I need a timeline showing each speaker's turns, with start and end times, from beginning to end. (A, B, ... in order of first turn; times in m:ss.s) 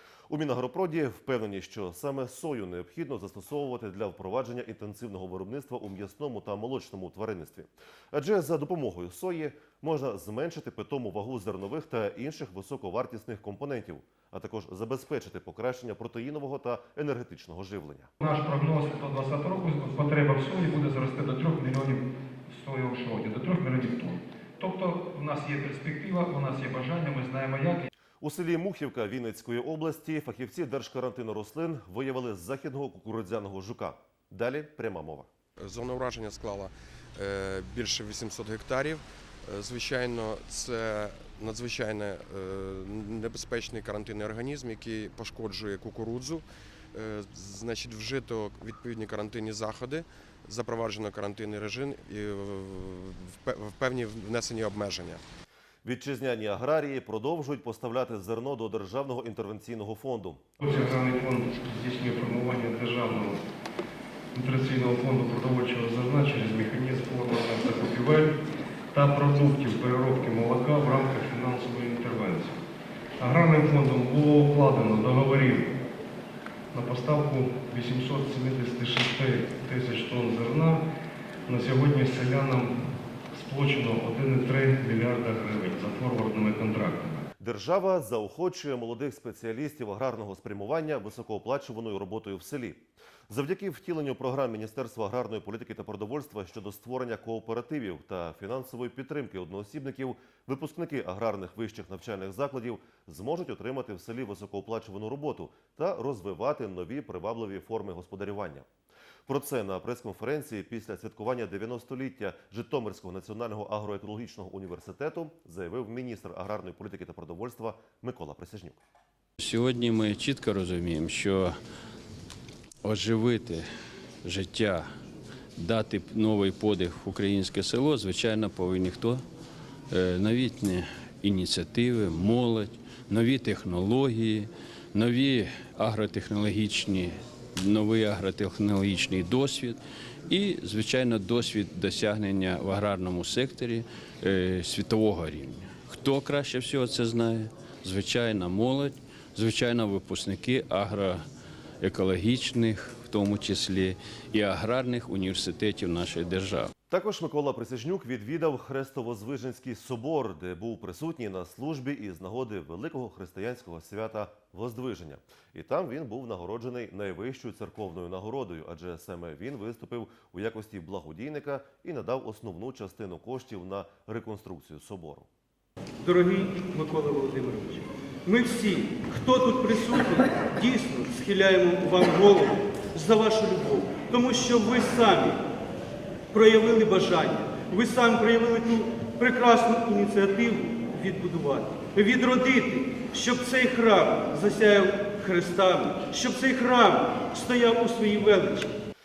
0:00.3-0:18.1 A
0:18.2-0:27.8 B
0:28.2-0:35.3 A
0:35.6-0:55.2 C
0:55.8-1:00.4 A
1:00.6-1:03.4 B
1:04.3-1:08.3 B
1:08.9-1:12.6 B
1:13.2-1:15.7 B
1:16.7-1:20.8 B
1:21.5-1:22.8 B
1:23.4-1:27.2 B
1:27.4-1:48.6 A
1:49.3-1:58.8 A
1:59.4-2:01.5 D
2:02.8-2:03.6 D
2:04.2-2:04.8 D
2:05.6-2:09.2 D
2:09.9-2:31.2 D
2:31.8-2:36.7 D
2:36.9-2:55.3 A
2:56.0-3:05.4 E
3:06.3-3:18.7 E